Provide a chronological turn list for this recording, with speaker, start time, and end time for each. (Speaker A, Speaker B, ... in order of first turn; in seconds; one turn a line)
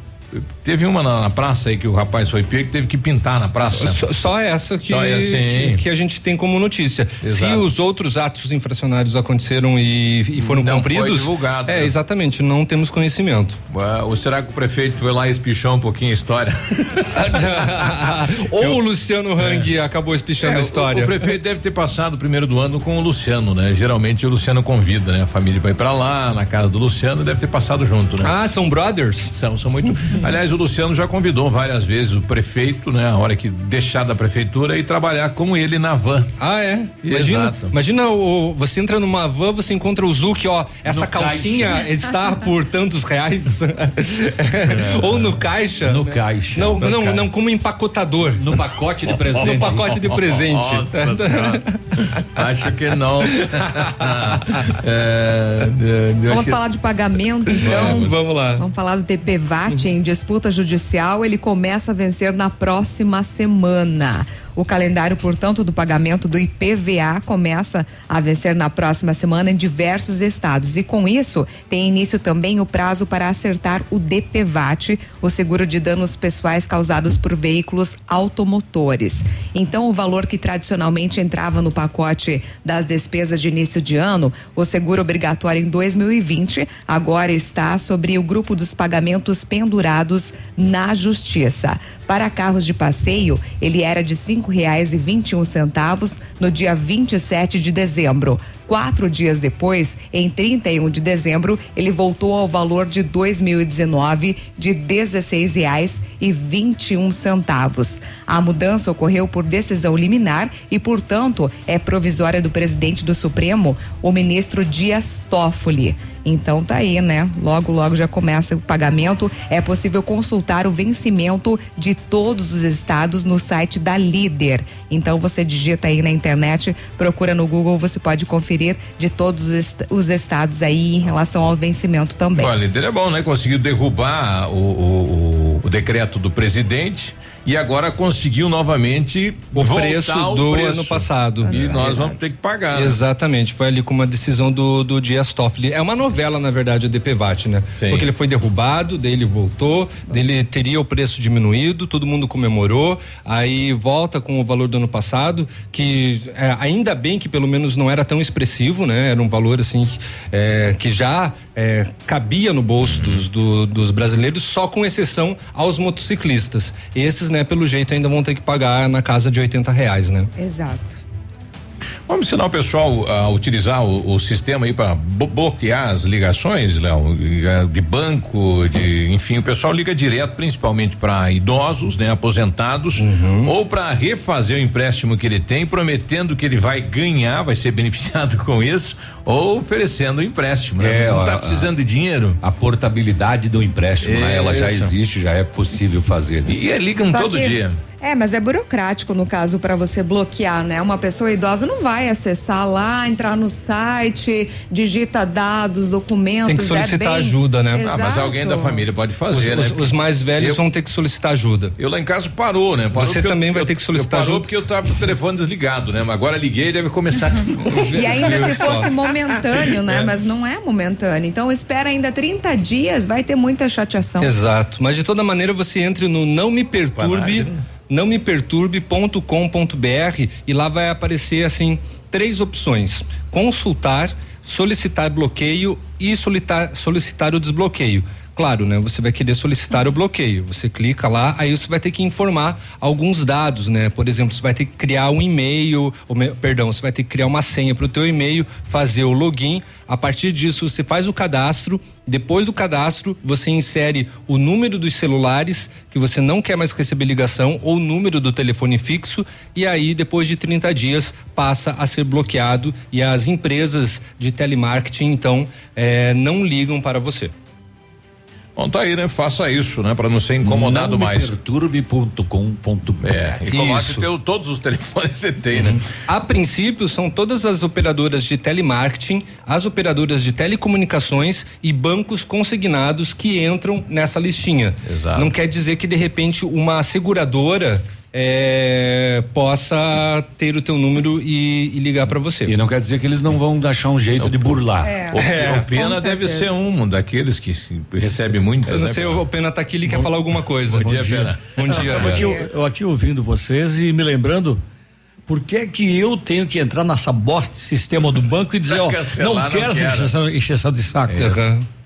Speaker A: 0.3-4.0
Speaker B: 3.8-13.6
Speaker A: 4.9-5.8
Speaker A: 7.2-7.6
Speaker A: 10.4-11.9
Speaker A: 13.7-17.1
Speaker B: 17.1-21.2
Speaker A: 19.4-19.7
Speaker A: 20.4-28.3
Speaker B: 28.2-29.3
Speaker A: 29.3-36.3
Speaker B: 36.4-48.4
Speaker A: 37.0-37.7
Speaker C: 40.9-41.8
Speaker C: 45.8-47.2
Speaker C: 48.4-50.0
Speaker B: 49.3-51.7
Speaker A: 50.0-56.6
Speaker D: 56.3-132.5
Speaker B: 57.6-58.6
Speaker A: 57.6-58.2
Speaker A: 132.3-143.0
Speaker B: 139.5-142.0
Speaker D: 141.4-142.1
Speaker B: 142.7-170.3
Speaker A: 147.8-148.1
Speaker A: 162.8-163.2
Speaker D: 170.3-171.0
Speaker A: 172.1-192.4
Speaker B: 183.0-183.5
Speaker C: 190.8-191.7
Speaker C: 192.4-196.5
Speaker A: 194.0-194.9
Speaker A: 196.5-197.8
Speaker D: 197.1-208.8
Speaker B: 206.5-207.9
Speaker A: 207.9-210.6
Speaker B: 209.3-211.7
Speaker A: 211.8-218.9
Speaker B: 212.9-214.5
Speaker B: 217.7-218.9
Speaker D: 217.9-224.3
Speaker A: 219.6-220.1
Speaker B: 224.2-267.3
Speaker A: 227.0-227.6
Speaker A: 268.6-271.3
Speaker C: 270.4-273.4
Speaker A: 273.0-275.8
Speaker B: 273.5-274.0
Speaker B: 275.6-292.6
Speaker A: 284.9-285.3
Speaker C: 292.4-295.0
Speaker A: 294.2-294.6
Speaker D: 294.8-295.2
Speaker A: 295.1-299.2
Speaker B: 295.2-295.6
Speaker D: 295.7-296.5
Speaker B: 298.7-302.3
Speaker A: 299.9-302.3
Speaker E: 301.6-304.6
Speaker D: 302.1-302.5
Speaker E: 305.3-311.3
Speaker A: 308.6-310.1
Speaker A: 311.1-311.4
Speaker B: 311.1-311.6